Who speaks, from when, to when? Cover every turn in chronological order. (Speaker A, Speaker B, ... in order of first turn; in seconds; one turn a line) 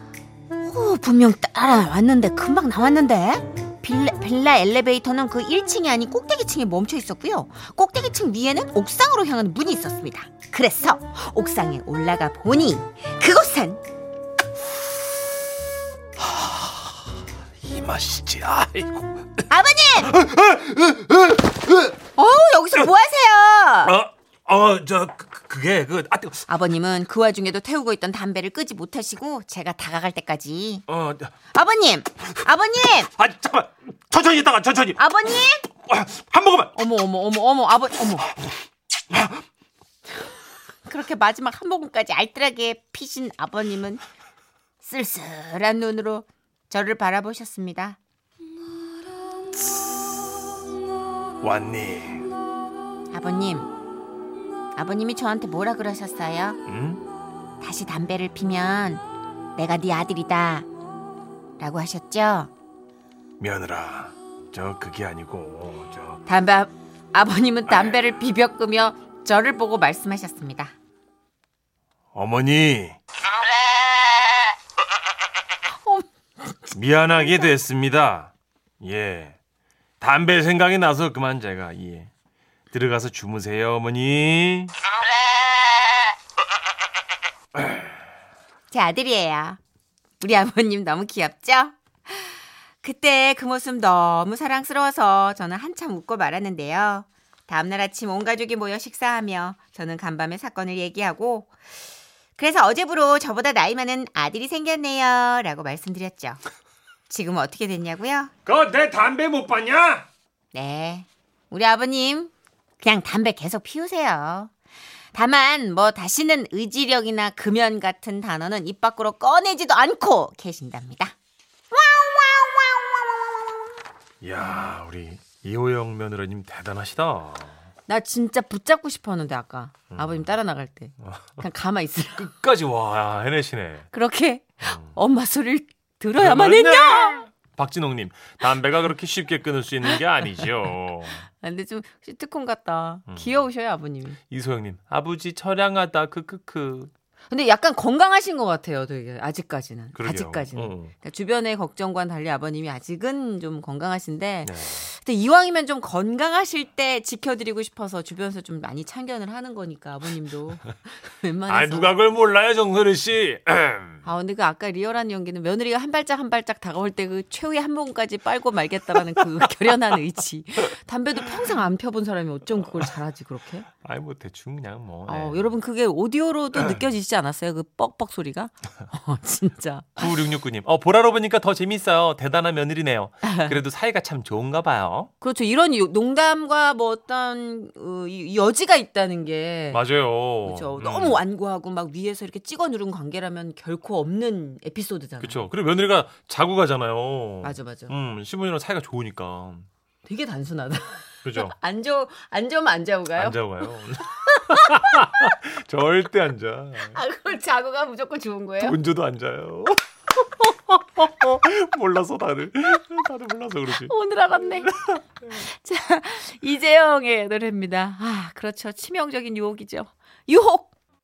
Speaker A: 0.6-13.8
Speaker B: 16.2-16.9
Speaker B: 17.6-19.4
Speaker A: 19.5-20.1
Speaker B: 20.0-21.9
Speaker A: 22.1-23.9
Speaker B: 23.8-26.4
Speaker A: 26.5-30.8
Speaker B: 30.9-31.3
Speaker A: 31.5-33.1
Speaker B: 33.1-36.7
Speaker A: 35.0-35.6
Speaker A: 36.7-38.3
Speaker B: 39.1-39.4
Speaker A: 40.9-44.0
Speaker A: 44.8-48.0
Speaker B: 51.4-52.2
Speaker A: 53.1-53.7
Speaker A: 54.8-56.6
Speaker B: 56.7-57.0
Speaker A: 57.6-59.0
Speaker A: 59.5-60.7
Speaker A: 61.6-62.5
Speaker B: 63.4-66.2
Speaker A: 66.2-70.7
Speaker B: 67.7-68.0
Speaker B: 72.1-73.0
Speaker A: 75.8-76.8
Speaker B: 76.7-79.3
Speaker B: 80.0-82.1
Speaker B: 82.7-84.7
Speaker B: 87.5-87.8
Speaker A: 88.7-89.6
Speaker A: 90.2-101.5
Speaker A: 102.3-106.4
Speaker A: 107.1-108.3
Speaker B: 108.5-110.0
Speaker A: 110.5-114.5
Speaker A: 115.1-121.1
Speaker A: 121.7-123.8
Speaker B: 124.2-127.6
Speaker A: 127.9-132.3
Speaker B: 129.9-130.2
Speaker B: 131.0-131.4
Speaker B: 132.1-133.9
Speaker A: 133.9-137.3
Speaker B: 134.6-134.9
Speaker B: 136.2-141.3
Speaker A: 141.3-144.2
Speaker B: 143.1-143.5
Speaker B: 144.3-146.9
Speaker A: 147.3-161.9
Speaker B: 149.9-150.9
Speaker B: 154.4-154.8
Speaker B: 161.5-164.0
Speaker A: 164.0-173.7
Speaker B: 173.8-175.5
Speaker A: 175.1-180.1
Speaker B: 180.0-185.1
Speaker A: 183.2-183.6
Speaker A: 185.2-189.8
Speaker B: 189.7-191.2
Speaker A: 190.4-195.4
Speaker B: 195.2-199.7
Speaker A: 197.4-197.9
Speaker A: 200.0-203.4
Speaker B: 201.2-201.5
Speaker B: 203.1-207.0
Speaker A: 206.9-208.8
Speaker B: 208.6-213.9
Speaker A: 213.7-220.7
Speaker B: 214.6-215.0